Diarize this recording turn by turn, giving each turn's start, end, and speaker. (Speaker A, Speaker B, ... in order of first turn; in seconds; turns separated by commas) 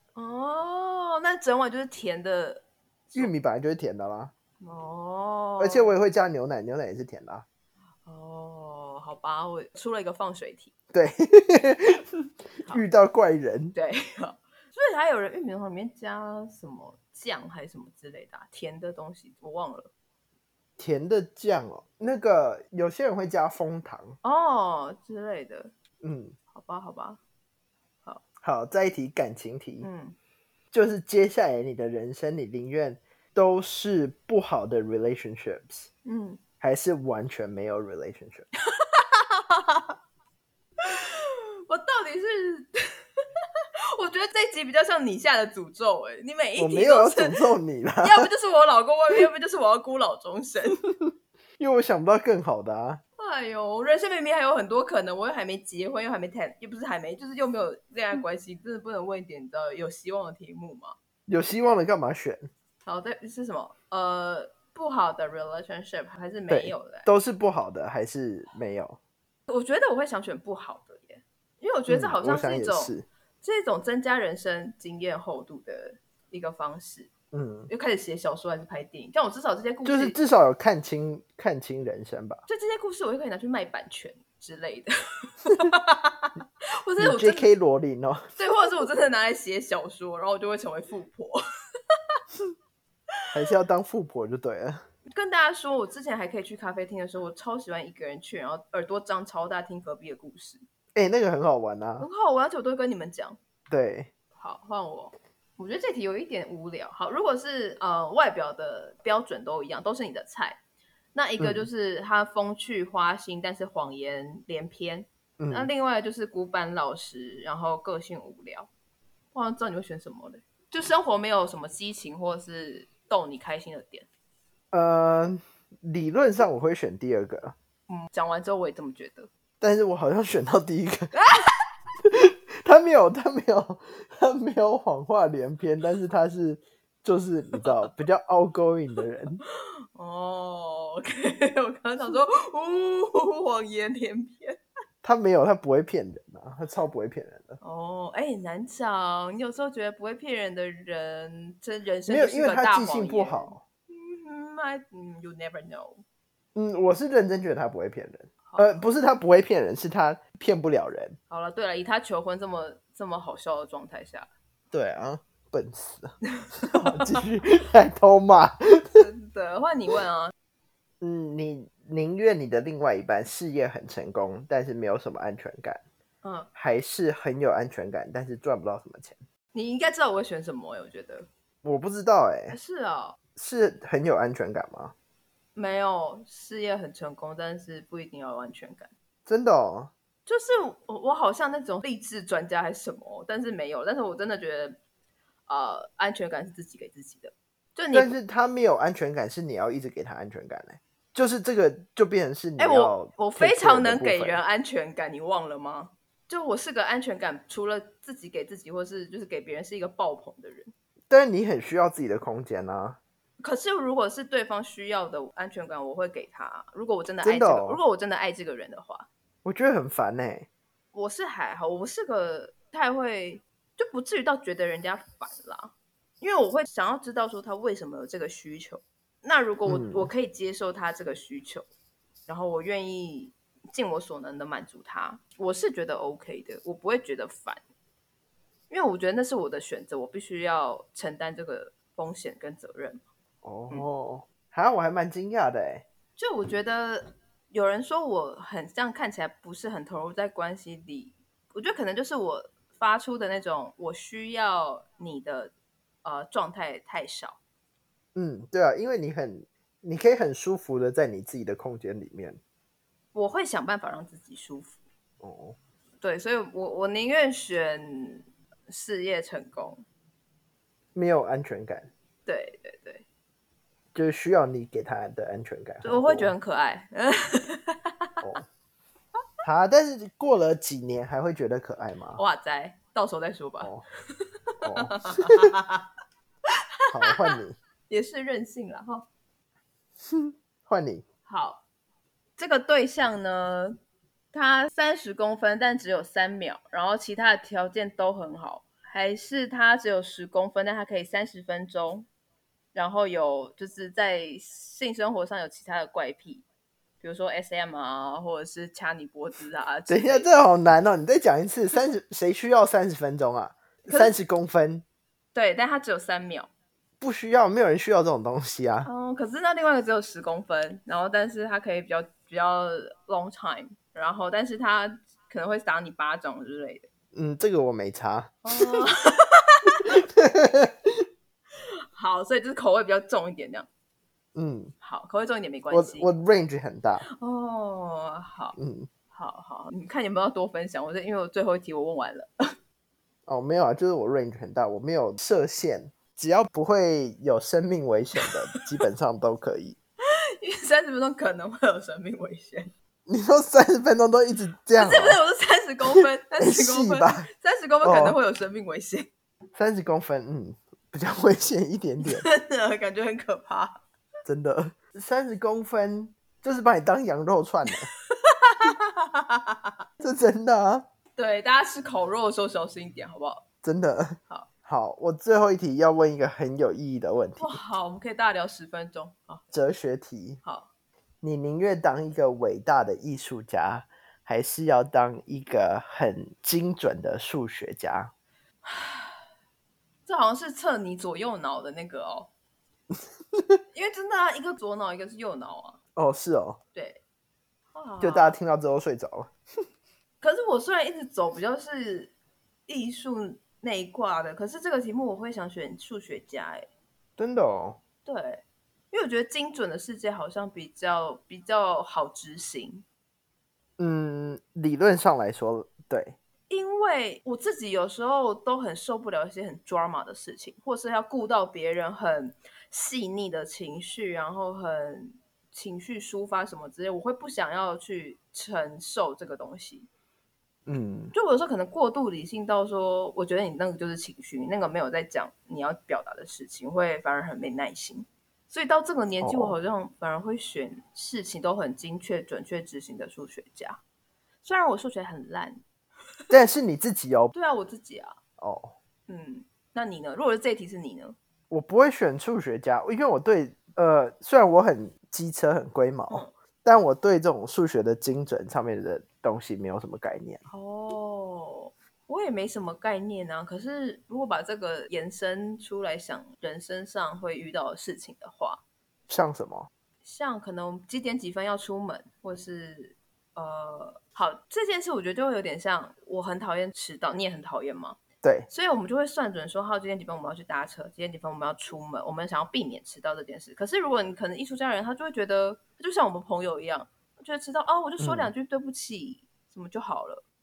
Speaker A: 0.1-3.3, Speaker B: 3.1-4.3, Speaker A: 4.6-5.9, Speaker B: 5.6-7.4, Speaker A: 8.0-10.7, Speaker B: 10.9-12.0, Speaker B: 12.6-13.7, Speaker A: 13.7-19.9, Speaker B: 20.8-24.1, Speaker A: 24.2-25.7, Speaker B: 26.0-26.3, Speaker A: 26.5-27.2, Speaker B: 28.4-29.9, Speaker A: 29.8-30.1, Speaker B: 30.7-35.9, Speaker A: 36.0-36.4, Speaker B: 36.6-38.5, Speaker A: 38.7-39.9, Speaker A: 40.8-42.8, Speaker A: 43.9-47.4, Speaker B: 46.6-48.3, Speaker A: 48.0-50.8, Speaker B: 51.6-53.0, Speaker A: 53.2-60.9, Speaker B: 61.3-62.5, Speaker A: 62.8-67.1, Speaker B: 66.5-69.0, Speaker A: 69.5-77.1, Speaker B: 71.9-73.0, Speaker B: 77.3-77.7, Speaker A: 77.7-80.2, Speaker B: 79.8-82.4, Speaker A: 82.5-87.5, Speaker B: 87.0-88.3, Speaker A: 88.4-91.4, Speaker B: 93.3-94.8, Speaker A: 95.1-100.6, Speaker B: 100.9-102.1, Speaker A: 102.0-103.4, Speaker B: 103.7-104.1, Speaker A: 104.3-110.6, Speaker A: 111.1-118.7, Speaker B: 111.4-111.7, Speaker B: 115.4-115.7, Speaker A: 119.3-124.1, Speaker B: 124.7-127.5, Speaker A: 127.9-129.3, Speaker B: 129.6-131.2, Speaker A: 131.1-131.5, Speaker B: 132.0-139.4, Speaker A: 137.6-137.9, Speaker A: 139.5-144.6, Speaker B: 145.0-147.6, Speaker A: 147.6-156.0, Speaker B: 152.1-153.6, Speaker B: 156.5-161.2, Speaker A: 158.4-158.8, Speaker A: 161.3-164.3, Speaker B: 164.7-166.1, Speaker A: 166.4-167.2, Speaker B: 166.7-169.1, Speaker A: 169.0-170.3, Speaker B: 171.0-175.8, Speaker A: 176.2-176.5, Speaker B: 176.5-179.2, Speaker A: 179.5-181.3, Speaker B: 181.6-182.6, Speaker A: 182.5-183.2, Speaker B: 183.3-184.9, Speaker A: 185.5-188.9, Speaker B: 189.3-189.9, Speaker A: 190.2-194.8, Speaker A: 195.5-198.2, Speaker B: 197.9-204.4, Speaker A: 202.6-210.7, Speaker B: 211.1-213.0, Speaker A: 213.4-219.1, Speaker B: 217.2-217.8, Speaker B: 219.4-220.5, Speaker A: 220.9-231.7, Speaker B: 229.7-230.1, Speaker A: 232.3-237.6, Speaker A: 238.7-243.0, Speaker B: 243.4-245.8, Speaker A: 246.2-255.5, Speaker A: 256.0-257.4, Speaker B: 258.1-262.4, Speaker A: 263.1-264.8, Speaker B: 265.2-265.6, Speaker A: 266.0-269.8, Speaker B: 270.9-271.9, Speaker A: 272.2-273.0, Speaker B: 273.9-276.3, Speaker A: 275.8-278.1, Speaker B: 279.4-282.2, Speaker A: 282.2-285.8, Speaker B: 284.6-285.5, Speaker B: 286.9-287.6, Speaker A: 287.0-287.3, Speaker A: 287.9-289.1, Speaker B: 290.1-291.0, Speaker A: 291.3-291.6, Speaker A: 292.4-293.8, Speaker A: 294.3-302.1, Speaker A: 302.7-306.4, Speaker A: 307.0-310.3, Speaker B: 309.9-314.8, Speaker A: 313.9-314.1, Speaker A: 315.3-316.5, Speaker B: 317.0-318.9, Speaker A: 318.8-326.9, Speaker B: 327.1-328.4, Speaker A: 328.4-329.9, Speaker B: 330.1-330.9, Speaker A: 331.9-333.7, Speaker B: 334.3-334.7, Speaker A: 334.8-336.1, Speaker B: 335.7-337.0, Speaker A: 337.1-338.6, Speaker B: 338.6-338.9, Speaker A: 339.1-342.3, Speaker B: 343.3-349.8, Speaker A: 350.4-352.7, Speaker B: 353.1-355.2, Speaker A: 354.8-359.1, Speaker B: 356.4-357.3, Speaker B: 357.8-358.2, Speaker B: 359.5-362.2, Speaker A: 362.0-363.8, Speaker B: 364.2-367.9, Speaker A: 367.7-369.7, Speaker B: 370.0-370.8, Speaker A: 371.2-373.4, Speaker B: 373.6-377.6, Speaker A: 377.4-379.4, Speaker B: 379.5-380.4, Speaker A: 380.4-380.7, Speaker B: 381.2-388.1, Speaker A: 388.6-389.2, Speaker A: 390.1-392.3, Speaker A: 393.7-395.8, Speaker B: 395.9-396.6, Speaker A: 396.7-397.0, Speaker A: 397.7-398.4, Speaker B: 398.0-399.3, Speaker A: 400.2-402.1, Speaker A: 402.7-406.7, Speaker B: 407.2-407.8, Speaker A: 408.0-412.8, Speaker B: 413.8-416.1, Speaker A: 416.5-429.9, Speaker B: 430.7-431.1, Speaker A: 431.1-443.8, Speaker B: 439.2-439.6, Speaker A: 444.4-445.6, Speaker B: 446.3-447.3, Speaker A: 447.3-448.1, Speaker B: 448.4-448.7, Speaker A: 449.1-451.1, Speaker B: 451.5-460.4, Speaker A: 460.5-468.6, Speaker B: 469.1-469.7, Speaker A: 470.0-478.0, Speaker B: 478.2-478.5, Speaker A: 478.5-490.2, Speaker B: 488.0-488.3